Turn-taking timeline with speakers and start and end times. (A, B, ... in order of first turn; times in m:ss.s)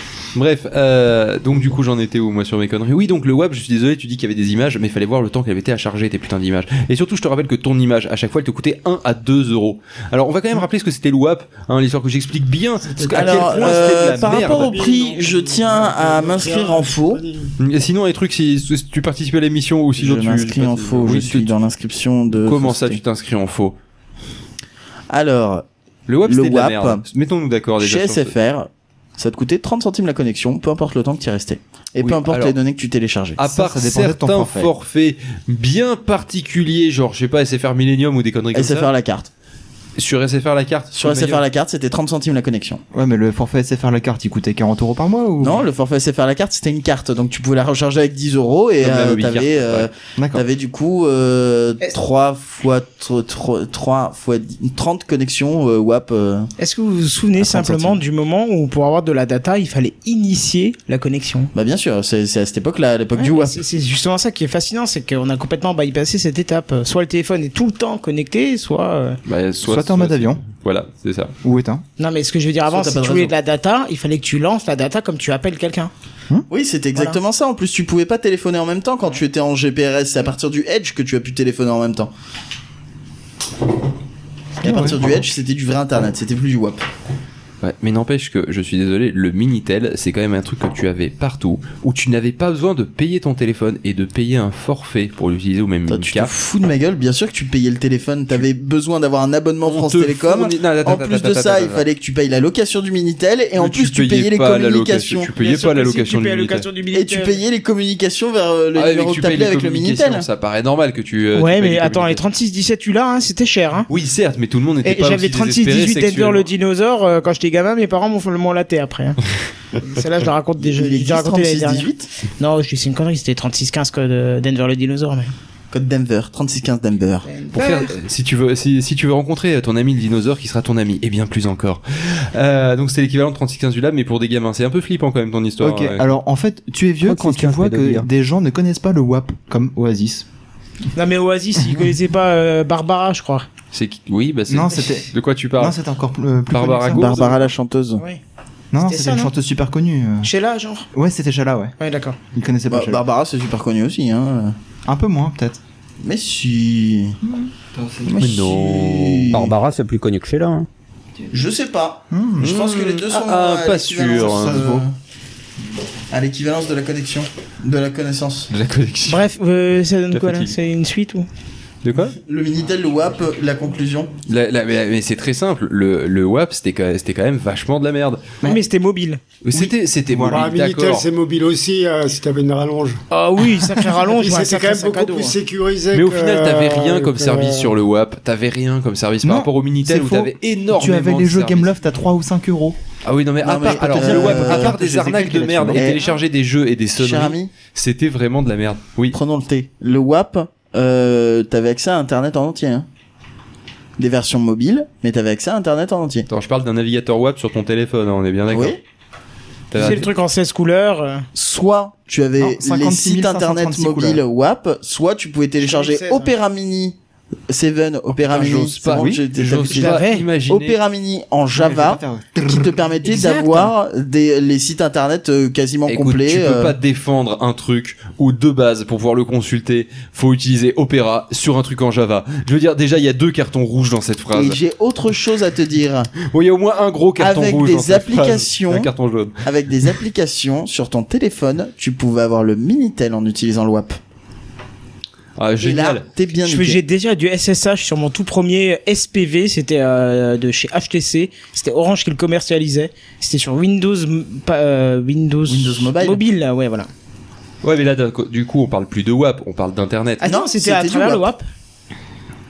0:00.3-0:14.7 A
0:12.8-0:17.5 B
0:13.1-0:17.2 C
0:17.6-0:21.5 A
0:20.0-0:23.0 C
0:22.4-0:23.8 A
0:25.1-0:25.6 C
0:26.1-0:28.3 A
0:26.3-0:27.0 C
0:27.8-0:33.4 C
0:32.0-0:32.6 A
0:33.4-0:38.9 A
0:33.4-0:34.7 D
0:38.5-0:39.3 C
0:40.0-0:41.4 A
0:41.0-0:42.8 C
0:42.9-0:45.6 D
0:45.4-0:56.5 C
0:48.8-0:49.9 A
0:50.2-0:50.4 D
0:56.6-1:01.5 E
0:57.4-0:58.0 D
1:01.5-1:03.6 C
1:03.2-1:09.2 E
1:09.3-1:11.3 A
1:09.6-1:10.4 D
1:11.4-1:11.8 D
1:12.0-1:15.9 E
1:12.7-1:13.3 C
1:16.5-1:22.1 C
1:24.6-1:25.0 D
1:24.6-1:26.8 C
1:27.6-1:36.3 A
1:35.9-1:45.3 C
1:39.6-1:41.8 A
1:43.6-1:46.7 A
1:45.4-1:47.4 E
1:46.9-1:50.2 C
1:48.7-1:52.2 A
1:51.3-1:53.9 E
1:53.9-1:56.5 A
1:54.8-1:59.2 E
1:59.8-2:01.9 E
2:00.6-2:02.1 C
2:02.4-2:05.3 E
2:05.7-2:07.3 C
2:07.2-2:07.9 E
2:07.5-2:16.0 A
2:15.6-2:20.2 D
2:17.0-2:18.1 F
2:21.0-2:23.5 E
2:21.6-2:21.9 D
2:23.7-2:25.8 A
2:24.5-2:27.1 D
2:26.5-2:27.4 A
2:26.9-2:28.0 C
2:28.7-2:30.3 D
2:28.8-2:29.3 E
2:30.2-2:30.9 E
2:30.9-2:31.7 D
2:31.8-2:32.2 E
2:32.3-2:33.0 D
2:32.7-2:34.6 C
2:34.8-2:35.6 D
2:36.0-2:37.2 C
2:37.2-2:38.2 D
2:38.0-2:39.5 C
2:38.2-2:39.4 A
2:39.3-2:40.7 F
2:41.3-2:44.9 C
2:42.1-2:42.5 D
2:42.4-2:44.8 A
2:44.3-2:44.8 D
2:46.1-2:48.5 C
2:48.5-2:49.2 A
2:49.1-2:51.3 E
2:50.1-2:50.5 A
2:51.8-2:52.2 A
2:52.2-2:54.1 C
2:54.3-2:58.2 A
2:58.4-2:59.2 E
2:59.4-3:01.0 A
2:59.5-3:00.5 D
3:00.3-3:03.0 B
3:03.1-3:05.4 E
3:04.0-3:07.7 B
3:05.9-3:11.7 A
3:09.2-3:12.8 D
3:13.0-3:19.1 A
3:13.4-3:14.8 C
3:13.6-3:16.0 D
3:15.7-3:16.2 C
3:17.0-3:17.5 C
3:19.1-3:22.9 C
3:24.0-3:26.3 C
3:26.3-3:28.8 A
3:28.5-3:28.8 C
3:29.7-3:30.0 A
3:29.8-3:31.3 E
3:31.3-3:37.0 C
3:32.4-3:34.2 D
3:35.6-3:36.3 E
3:37.5-3:46.7 C
3:38.3-3:40.8 A
3:38.8-3:39.2 D
3:39.7-3:40.2 E
3:41.5-3:43.3 D
3:43.0-3:43.7 E
3:45.9-3:54.6 A
3:54.3-3:56.1 C
3:56.3-3:59.3 A
3:57.2-3:58.9 C
3:59.4-4:04.0 C
4:05.4-4:06.0 A
4:05.6-4:06.8 C
4:06.4-4:16.9 E
4:15.5-4:16.2 C
4:17.6-4:20.2 A
4:20.2-4:21.4 E
4:20.2-4:21.3 C